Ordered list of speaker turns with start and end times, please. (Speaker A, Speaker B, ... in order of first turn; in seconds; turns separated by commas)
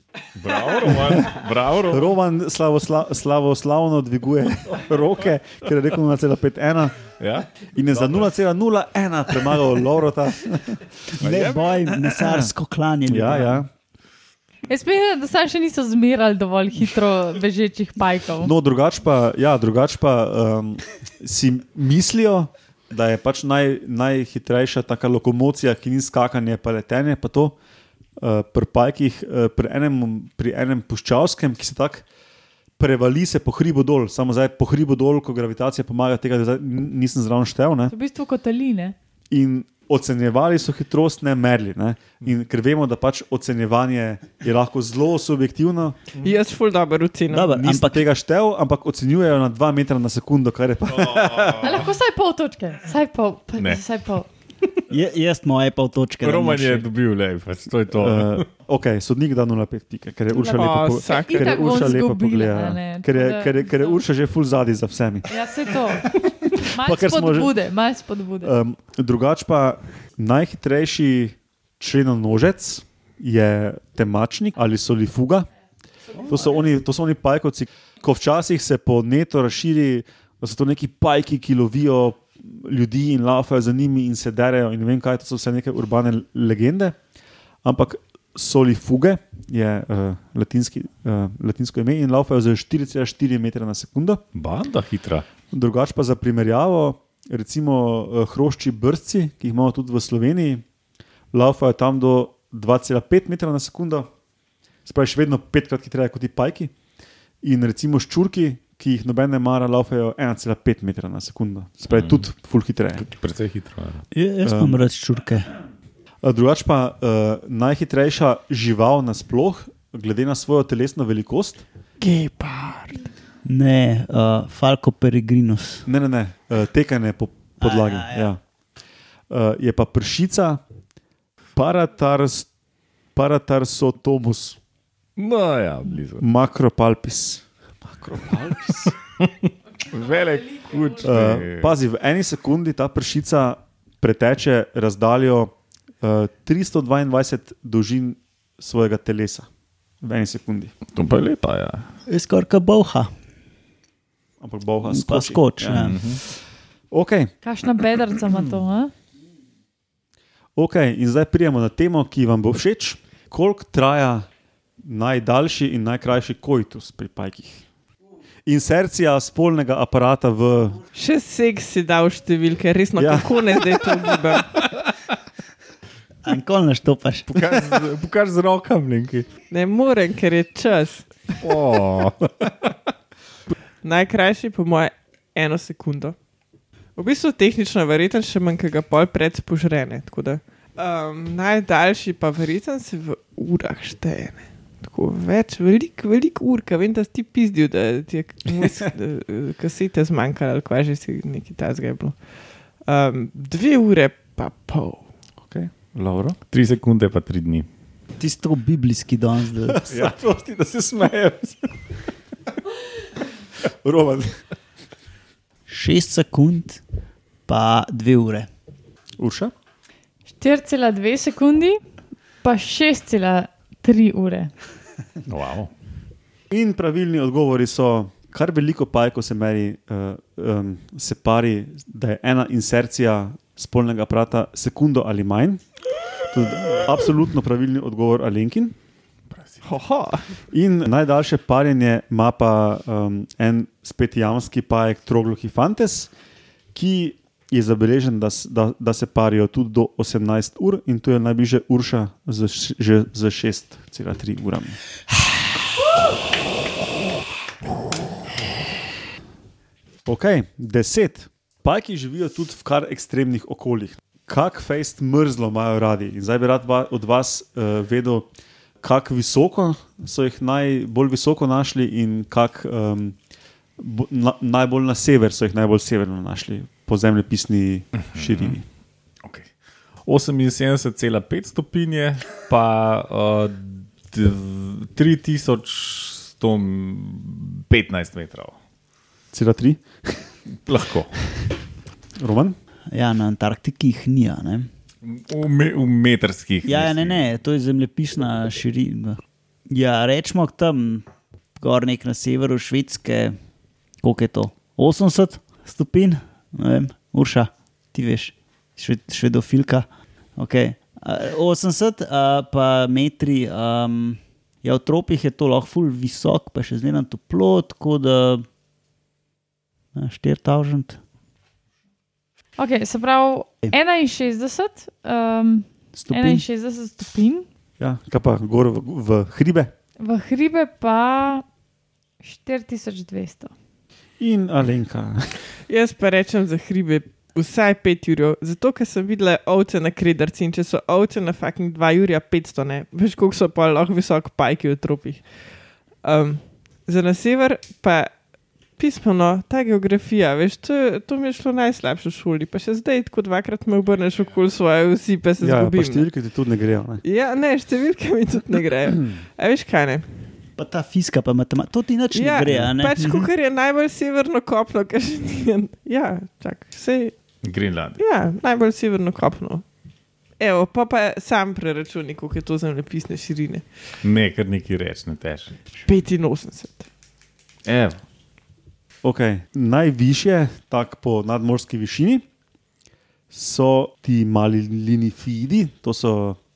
Speaker A: 0.3-2.1, Speaker B: 0.9-1.3, Speaker B: 1.9-7.0, Speaker A: 7.2-8.2, Speaker B: 7.7-10.8, Speaker C: 11.1-13.7, Speaker A: 11.2-11.9, Speaker B: 12.1-12.5, Speaker B: 13.1-13.7, Speaker D: 14.7-18.5, Speaker B: 18.4-27.6, Speaker B: 28.2-32.0, Speaker B: 32.8-37.9, Speaker D: 37.9-39.0, Speaker B: 39.3-46.0, Speaker E: 46.2-47.5, Speaker C: 47.3-48.1, Speaker B: 47.5-51.9, Speaker A: 50.9-51.8, Speaker D: 51.6-54.3, Speaker C: 54.9-56.9, Speaker A: 56.2-58.5, Speaker B: 58.0-67.5, Speaker E: 60.3-62.0, Speaker D: 61.0-64.0, Speaker D: 65.3-68.5, Speaker B: 68.4-75.5, Speaker B: 76.2-87.0, Speaker B: 87.6-94.2, Speaker A: 94.3-95.3, Speaker B: 95.5-100.6, Speaker B: 101.3-104.1, Speaker B: 104.9-106.7, Speaker B: 107.4-113.1, Speaker A: 111.9-112.2, Speaker A: 113.0-114.0, Speaker C: 114.1-115.5, Speaker B: 114.4-114.8, Speaker B: 116.2-121.6, Speaker E: 122.0-123.1, Speaker C: 123.5-125.8, Speaker B: 125.9-128.4, Speaker C: 127.6-128.3, Speaker B: 129.3-130.6, Speaker B: 131.6-132.5, Speaker B: 133.2-134.6, Speaker A: 135.2-136.2, Speaker B: 136.2-138.9, Speaker A: 139.2-141.7, Speaker B: 141.0-149.5, Speaker B: 150.0-150.7, Speaker A: 150.9-151.9, Speaker C: 152.1-153.1, Speaker B: 154.4-156.2, Speaker C: 154.9-156.0, Speaker A: 155.7-156.2, Speaker B: 156.9-157.3, Speaker D: 157.4-158.9, Speaker B: 160.6-164.3, Speaker B: 164.8-167.6, Speaker B: 168.5-170.8, Speaker E: 170.9-174.6, Speaker B: 173.0-173.6, Speaker C: 176.2-177.8, Speaker A: 177.3-179.3, Speaker E: 179.5-181.1, Speaker A: 181.4-182.7, Speaker E: 183.8-186.2, Speaker E: 187.0-202.2, Speaker E: 202.8-205.1, Speaker B: 205.5-206.4, Speaker A: 206.5-207.7, Speaker C: 208.2-209.8, Speaker B: 209.7-211.5, Speaker A: 209.9-210.6, Speaker B: 213.8-214.4, Speaker C: 215.7-216.8, Speaker C: 217.5-218.5, Speaker B: 219.2-219.5, Speaker D: 220.3-221.8, Speaker D: 222.4-224.5, Speaker A: 225.3-225.7, Speaker B: 226.5-235.6, Speaker B: 236.3-238.7, Speaker A: 239.3-239.6, Speaker E: 239.6-240.3, Speaker B: 240.5-246.1, Speaker B: 246.7-254.8, Speaker B: 260.1-268.3, Speaker B: 268.8-273.2, Speaker B: 273.8-278.6, Speaker A: 278.0-278.6, Speaker A: 279.2-279.5, Speaker A: 280.0-288.6, Speaker B: 289.3-290.2, Speaker A: 290.5-291.1, Speaker B: 292.2-292.6, Speaker C: 292.9-294.7, Speaker A: 295.0-297.2, Speaker C: 296.6-301.1, Speaker C: 301.6-303.4, Speaker C: 304.0-318.4, Speaker C: 319.9-321.0, Speaker D: 322.6-327.4, Speaker C: 326.0-326.4, Speaker B: 327.8-329.7, Speaker D: 330.0-331.4, Speaker D: 332.2-333.5, Speaker B: 334.2-335.4, Speaker E: 335.7-345.2, Speaker E: 346.0-348.1, Speaker E: 348.8-356.1, Speaker B: 355.4-357.0, Speaker E: 357.0-360.1, Speaker C: 360.6-363.3, Speaker E: 362.1-367.2, Speaker A: 367.4-368.0, Speaker E: 368.0-369.6, Speaker E: 370.4-373.6, Speaker A: 374.0-375.5, Speaker E: 375.8-376.9, Speaker A: 377.6-378.0, Speaker B: 379.0-382.2, Speaker B: 383.3-386.4